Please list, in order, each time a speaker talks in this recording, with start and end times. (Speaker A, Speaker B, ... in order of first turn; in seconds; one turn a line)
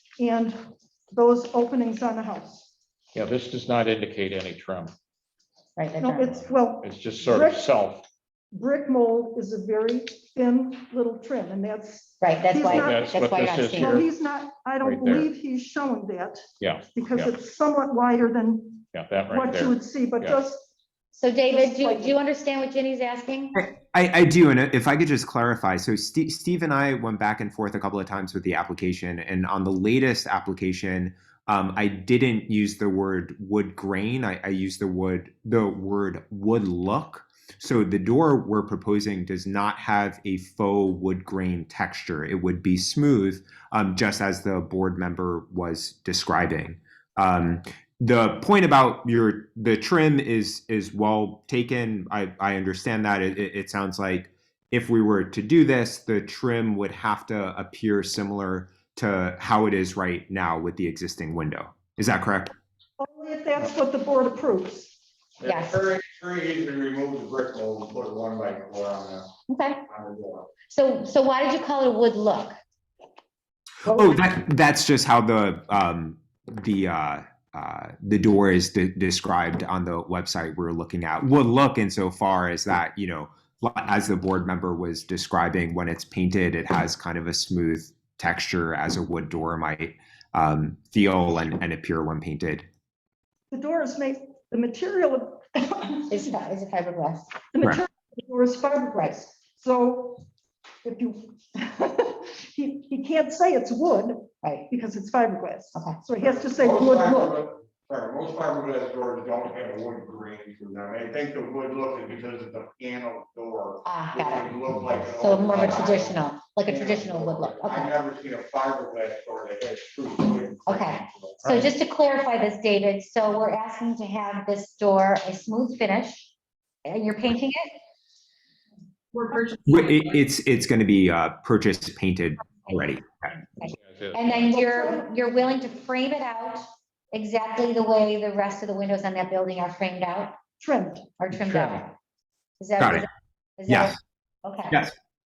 Speaker A: 0.2-2.7
Speaker B: 3.1-5.0
Speaker C: 5.8-6.4
Speaker A: 6.0-7.7
Speaker B: 6.8-8.1
Speaker A: 8.5-13.2
Speaker C: 12.2-14.0
Speaker B: 12.7-14.1
Speaker A: 13.7-20.7
Speaker B: 14.8-15.3
Speaker B: 16.6-17.3
Speaker B: 18.9-20.4
Speaker C: 21.1-23.6
Speaker A: 21.5-22.1
Speaker D: 23.6-62.5
Speaker A: 63.0-65.0
Speaker E: 65.4-69.3
Speaker C: 65.4-65.8
Speaker C: 69.5-69.8
Speaker E: 69.9-70.5
Speaker C: 70.7-72.6
Speaker D: 73.8-92.7
Speaker C: 73.9-74.2
Speaker A: 93.5-96.3
Speaker C: 96.1-97.3
Speaker A: 97.5-100.2
Speaker A: 100.8-107.4
Speaker E: 106.4-121.5
Speaker C: 113.8-114.5
Speaker C: 115.1-117.9
Speaker C: 120.7-126.3
Speaker B: 121.4-121.7
Speaker C: 126.8-127.7
Speaker C: 129.2-129.7
Speaker D: 129.7-133.3
Speaker B: 133.6-134.5
Speaker C: 133.6-140.4
Speaker A: 134.5-135.1
Speaker A: 140.6-141.1
Speaker C: 141.2-141.9
Speaker B: 141.5-141.8
Speaker C: 142.6-143.1
Speaker D: 142.8-143.1
Speaker C: 143.6-144.9
Speaker D: 143.7-144.0